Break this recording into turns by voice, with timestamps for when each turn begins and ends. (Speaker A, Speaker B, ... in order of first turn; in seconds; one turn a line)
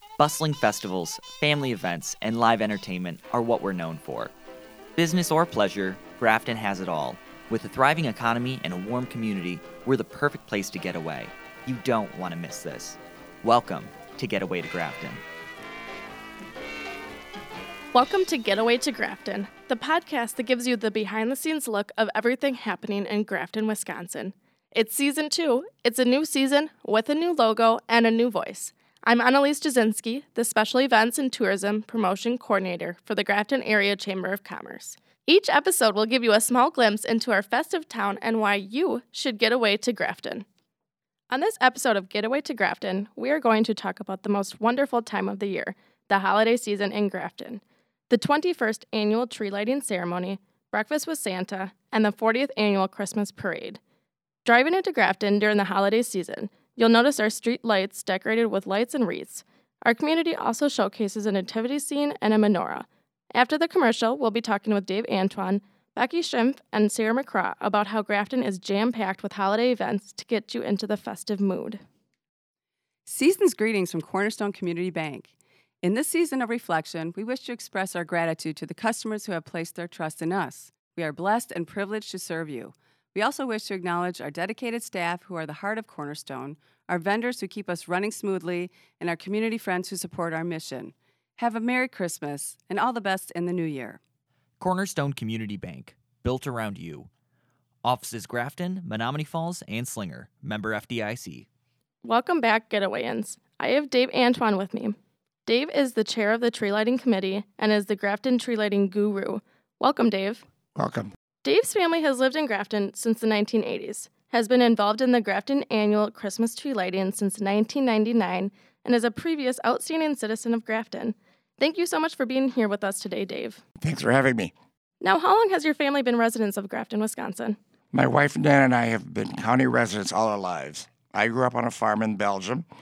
Speaker A: 0.2-4.3
Speaker A: 5.0-15.2
Speaker B: 17.9-40.5
Speaker B: 41.3-53.8
Speaker B: 54.5-71.8
Speaker C: 73.1-94.0
Speaker A: 94.6-97.1
Speaker A: 97.8-101.5
Speaker B: 102.0-110.4
Speaker D: 110.8-111.1
Speaker B: 111.4-123.6
Speaker D: 123.8-124.5
Speaker B: 125.0-127.6
Speaker D: 127.9-132.7